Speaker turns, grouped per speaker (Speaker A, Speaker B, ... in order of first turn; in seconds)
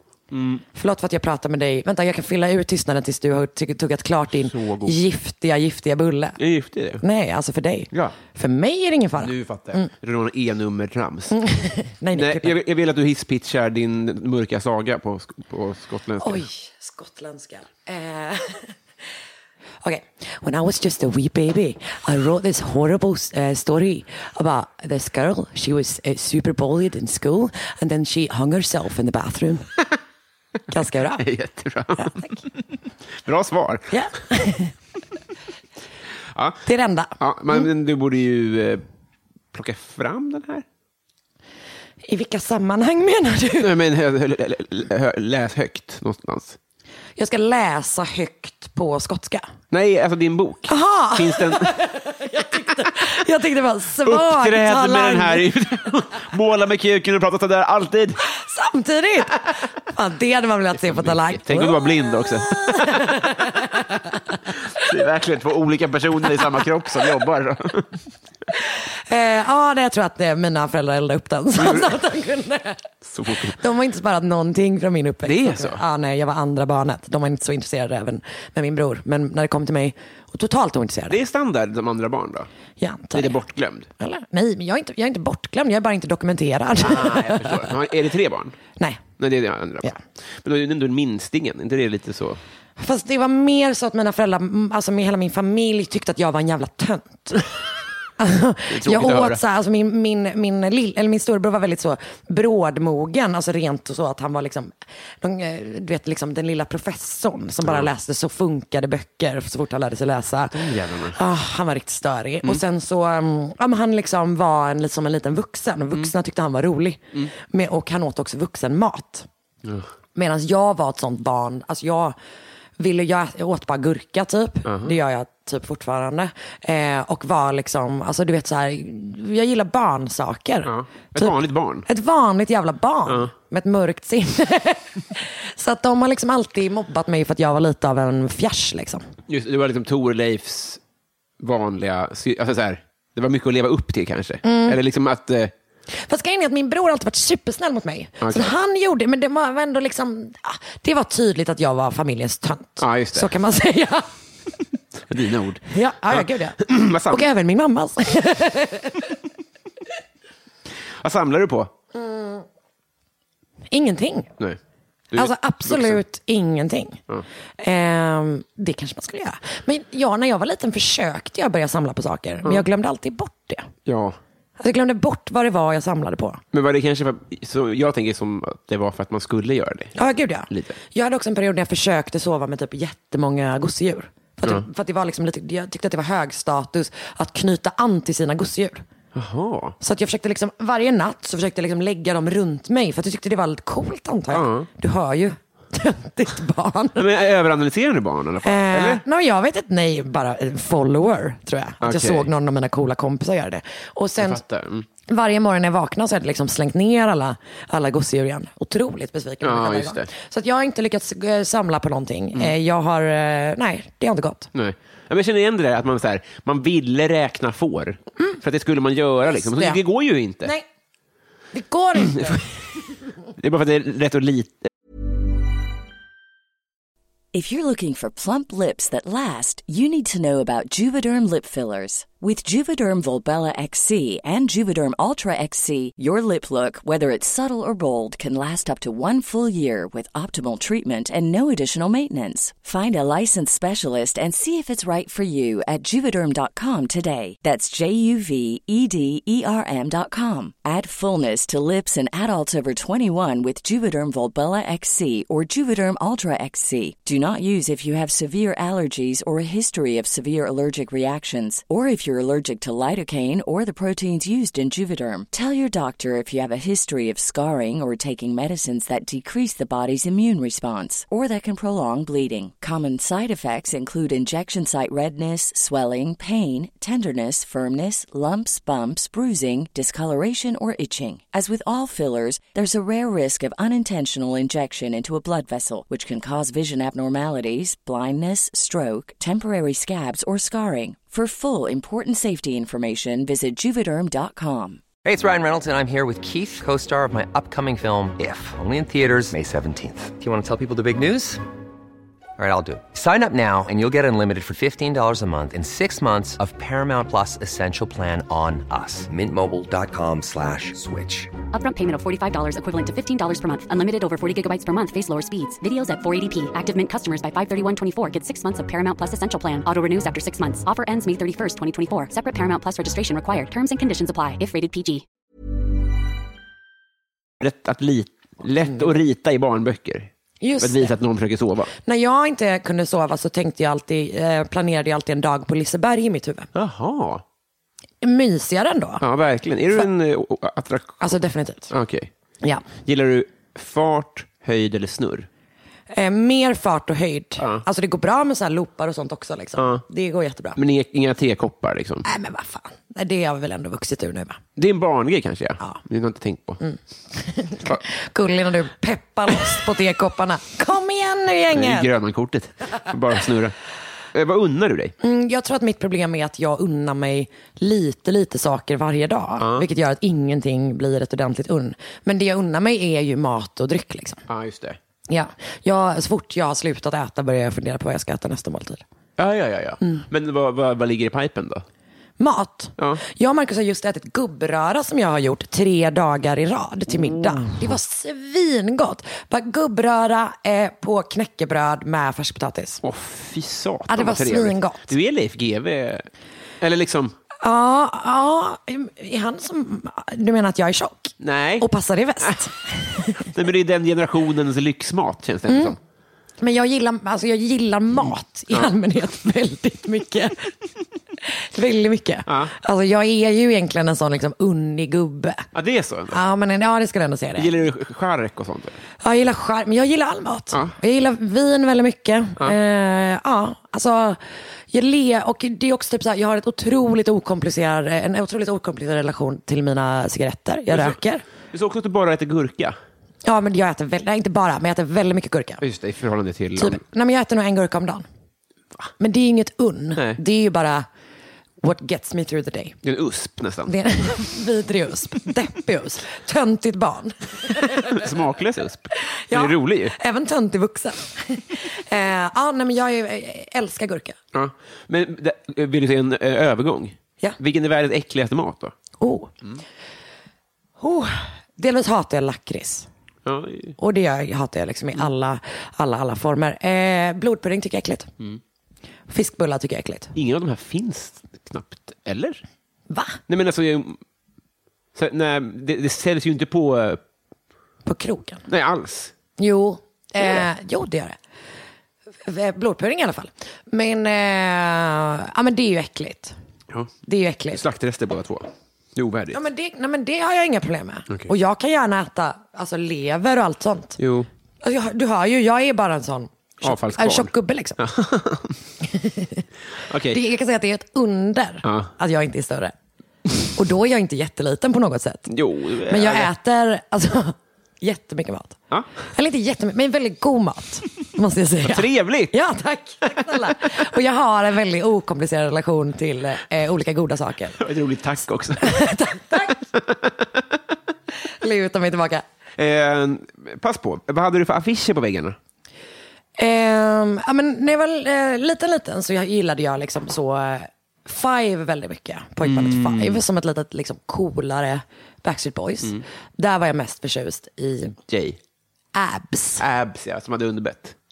Speaker A: 0.3-0.6, 4.4-4.9, 6.4-7.0, 9.2-11.4, 12.1-16.4, 31.2-32.4, 33.2-33.9, 36.3-36.6, 37.2-38.8, 39.5-40.6, 43.6-46.6, 49.7-51.7, 54.0-58.2, 60.9-63.2, 64.7-67.9, 71.6-72.0, 73.0-73.6, 75.2-75.8, 81.1-82.5, 83.1-83.9, 86.8-88.5, 89.2-92.4, 98.7-99.4, 110.5-111.2, 124.7-124.9, 130.6-131.8, 139.3-140.8, 141.4-145.5, 148.2-148.5, 152.8-153.3, 155.1-157.2, 161.0-161.7, 165.1-166.0, 173.8-174.2, 176.5-179.9, 180.5-180.8, 189.1-189.8, 194.3-194.7, 197.0-199.0, 201.8-202.3, 204.2-204.8, 209.4-210.1, 214.5-220.5, 223.4-224.7, 327.4-330.1, 330.6-331.7, 336.5-337.2, 339.0-341.1, 341.7-342.1, 342.8-345.3, 347.4-347.6, 349.6-349.8, 350.6-352.1, 354.6-356.6, 361.5-363.5, 364.1-364.9, 369.4-369.6, 374.3-374.8, 379.2-381.6, 386.9-387.7, 392.8-396.1, 396.6-397.1, 401.2-401.7, 403.2-405.8, 412.3-412.5, 415.5-416.2, 417.4-418.8, 430.7-431.0, 431.5-432.8, 435.6-436.8, 442.8-443.7, 447.9-449.9, 454.3-458.7, 463.2-463.8, 470.1-472.4, 473.3-474.0, 474.9-477.0, 478.5-479.1, 487.5-489.4, 494.0-494.3, 496.6-498.6, 499.9-500.2, 501.6-501.9, 505.3-506.3, 511.6-512.3, 517.6-518.9, 519.5-520.2, 522.6-525.4, 532.4-533.2, 538.1-538.4, 539.6-540.9
Speaker B: 0.7-6.4, 7.0-9.9, 11.3-12.6, 16.2-18.7, 19.8-29.7, 30.7-31.2, 33.9-34.7, 36.6-37.1, 42.0-43.7, 47.2-49.4, 50.7-55.4, 58.3-64.4, 68.5-72.8, 73.5-81.2, 82.8-83.4, 84.0-87.7, 92.8-97.5, 98.2-119.3, 120.1-122.2, 122.8-139.0, 144.4-144.8, 145.9-154.1, 155.7-159.1, 161.9-162.4, 163.7-164.3, 165.1-167.0, 167.6-173.7, 174.6-176.4, 179.9-188.8, 189.8-197.1, 198.4-204.4, 205.1-214.5, 219.3-219.8, 221.5-222.5, 328.6-328.9, 330.4-330.9, 331.8-336.5, 338.0-339.0, 341.0-341.7, 345.9-350.6, 352.0-354.4, 356.6-361.9, 365.0-374.2, 375.1-378.8, 382.2-392.8, 393.9-394.9, 397.4-403.3, 405.5-405.8, 406.4-410.5, 411.2-415.5, 416.1-417.5, 419.0-424.2, 424.7-431.2, 433.2-435.6, 436.6-438.1, 439.0-440.9, 441.6-442.8, 443.7-448.1, 449.1-454.2, 459.0-459.3, 460.8-462.9, 463.8-468.1, 469.1-470.1, 472.9-473.2, 477.9-478.4, 479.4-481.2, 482.3-486.3, 487.1-487.6, 489.3-494.0, 494.6-497.8, 498.8-499.4, 500.1-502.7, 503.5-505.3, 505.9-508.6, 509.1-517.6, 518.6-519.6, 521.4-522.2, 526.4-538.0, 538.9-539.6
Speaker C: 227.3-294.8
Speaker D: 295.0-301.4, 302.4-311.3
Speaker E: 311.5-325.0